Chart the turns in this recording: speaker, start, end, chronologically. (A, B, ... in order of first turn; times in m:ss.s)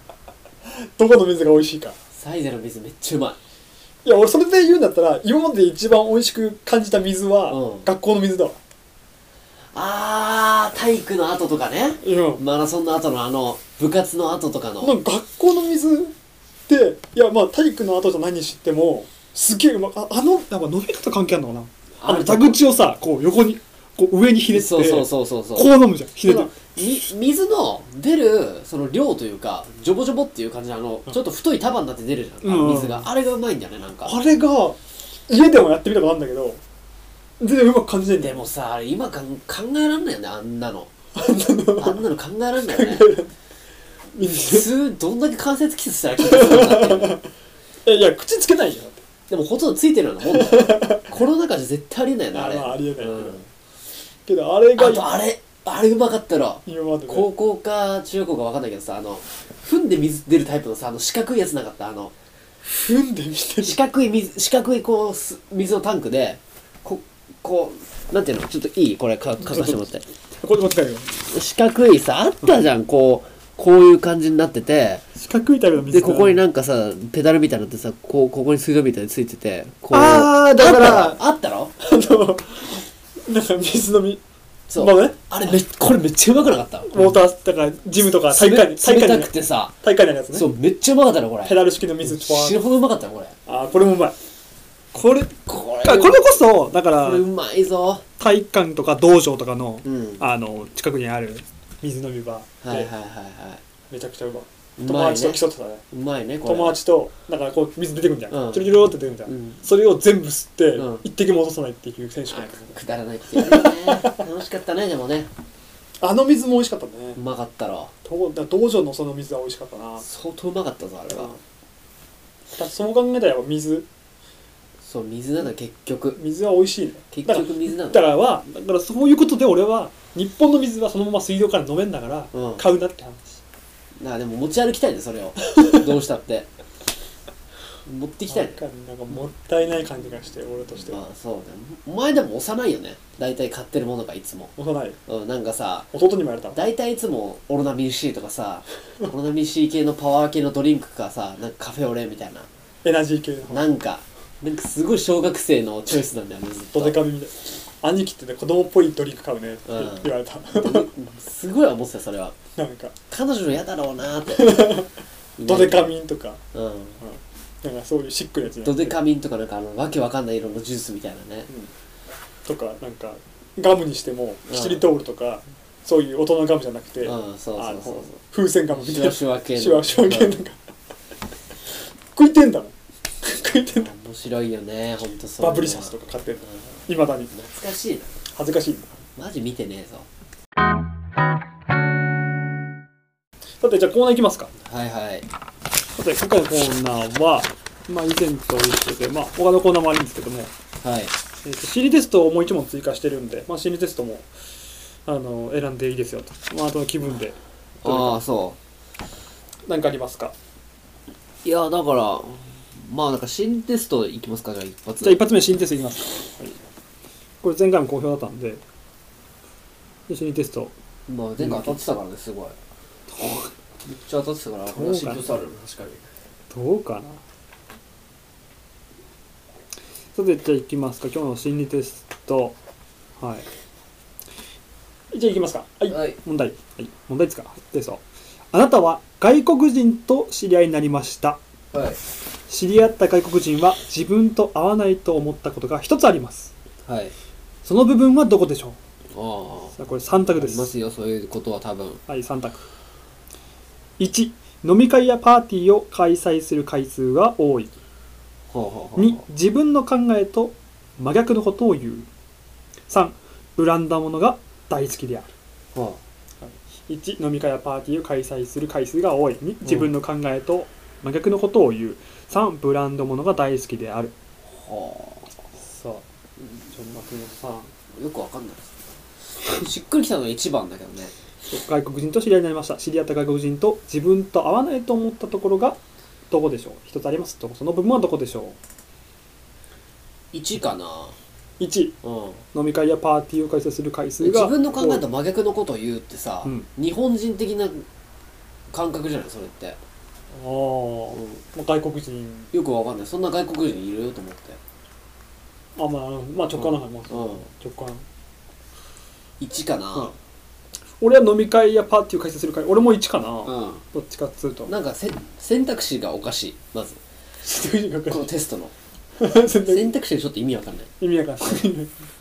0:00.6-0:02.0 A
0:02.1-0:03.4 B
0:04.0-0:08.6 A
0:07.5-0:07.9 B
0:09.7-0:15.0 B
0:12.0-0:12.4 A
0:14.8-0:16.1 A
0:16.7-0:26.5 A
0:22.0-0:22.6 B
0:24.5-0:25.7 B
0:26.2-0:34.1 B
0:32.4-0:33.1 A
0:34.0-0:36.6 A
0:37.4-0:38.5 A
0:38.2-0:40.9 B
0:41.2-0:42.0 A
0:41.8-0:43.1 B
0:42.6-0:43.3 A
0:44.1-0:44.7 A
0:44.2-0:47.2 B
0:46.2-0:47.2 A
0:47.8-0:49.0 A
0:49.3-0:53.5 B
0:50.3-0:51.1 A
0:52.3-0:53.4 A
0:54.3-0:55.1 A
0:54.8-1:02.1 B
0:56.7-0:57.3 A
1:02.6-1:03.8 A
1:03.6-1:10.0 B
1:09.4-1:09.8 A
1:10.4-1:11.2 A
1:11.2-1:15.0 B
1:15.2-1:16.4 A
1:15.9-1:21.7 B
1:19.9-1:21.2 A
1:21.8-1:24.2 A
1:24.7-1:27.2 B
1:24.8-1:25.5 A
1:26.9-1:30.5 A
1:28.0-1:29.7 B
1:30.3-1:33.4 B
1:31.4-1:32.6 A
1:33.5-1:34.2 A
1:34.9-1:37.2 A
1:35.3-1:36.4 B
1:37.0-1:38.0 B
1:38.2-1:42.9 A
1:39.8-1:40.2 B
1:42.6-1:43.6 B
1:43.9-1:45.8 A
1:44.8-1:45.4 B
1:45.9-1:46.8 B
1:46.4-1:52.8 A
1:48.3-1:49.6 B
1:50.8-1:51.0 B
1:52.3-1:55.3 B
1:53.3-1:54.2 A
1:56.0-1:57.2 A
1:57.2-1:57.9 B
1:58.0-2:00.1 A
2:00.0-2:01.4 B
2:02.6-2:03.9 A
2:04.8-2:06.2 B
2:06.2-2:13.4 A
2:07.1-2:08.1 B
2:12.3-2:12.6 B
2:14.0-2:16.5 B
2:15.5-2:15.8 A
2:17.9-2:18.6 B
2:18.3-2:21.0 A
2:20.9-2:24.5 B
2:24.6-2:25.0 A
2:25.1-2:25.9 B
2:25.9-2:26.6 A
2:26.5-2:32.5 B
2:32.8-2:33.7 A
2:33.5-2:37.0 B
2:36.7-2:40.9 A
2:39.7-2:42.4 B
2:42.6-2:42.9 A
2:43.1-2:44.7 B
2:44.3-2:44.9 A
2:45.4-2:45.9 B
2:45.4-2:46.4 A
2:46.5-2:47.0 B
2:47.0-2:49.0 A
2:48.6-2:51.5 B
2:52.4-3:00.6 A
2:54.5-2:54.8 B
2:57.0-2:58.2 B
2:58.7-3:00.4 B
3:02.1-3:03.9 A
3:03.7-3:06.0 B
3:05.4-3:07.3 A
3:07.3-3:08.1 B
3:08.3-3:08.9 A
3:09.2-3:10.1 B
3:13.6-3:14.5 A
3:14.6-3:15.3 B
3:16.0-3:20.5 A
3:20.8-3:21.1 B
3:21.4-3:24.3 A
3:25.1-3:28.2 A
3:27.8-3:28.6 B
3:29.7-3:30.3 A
3:31.4-3:35.2 B
3:35.0-3:36.6 A
3:37.4-3:38.6 A
3:40.1-3:40.7 A
3:41.1-3:42.6 B
3:41.4-3:41.8 A
3:43.1-3:43.5 A
3:43.8-3:46.1 B
3:44.7-3:45.2 A
3:46.5-3:47.2 A
3:50.2-3:52.6 A
3:53.2-3:53.5 A
3:55.1-4:01.4 A
3:55.9-3:56.2 B
4:01.7-4:02.0 B
4:02.5-4:06.5 A
4:06.8-4:07.1 B
4:07.6-4:08.8 A
4:09.1-4:12.0 B
4:09.8-4:10.7 A
4:12.1-4:12.7 A
4:14.0-4:17.7 A
4:18.5-4:19.2 B
4:19.0-4:22.1 A
4:22.9-4:25.3 A
4:25.7-4:26.0 B
4:26.4-4:34.1 A
4:29.6-4:29.9 B
4:34.5-4:35.3 B
4:35.6-4:36.0 A
4:36.7-4:37.7 A
4:37.9-4:38.7 B
4:39.4-4:41.1 B
4:41.5-4:45.8 A
4:46.3-4:48.6 A
4:50.3-4:51.2 B
4:51.6-4:52.0 A
4:52.0-4:52.4 B
4:52.5-4:55.0 A
4:54.2-4:57.8 B
4:58.7-4:59.8 B
5:00.3-5:02.5 A
5:02.5-5:04.6 B
5:05.8-5:08.0 A
5:06.6-5:07.4 B
5:09.4-5:10.1 B
5:11.0-5:14.7 A
5:13.4-5:13.8 B
5:14.7-5:17.0 B
5:17.4-5:18.3 A
5:18.1-5:18.7 B
5:19.2-5:19.9 A
5:19.6-5:20.9 B
5:21.0-5:21.9 A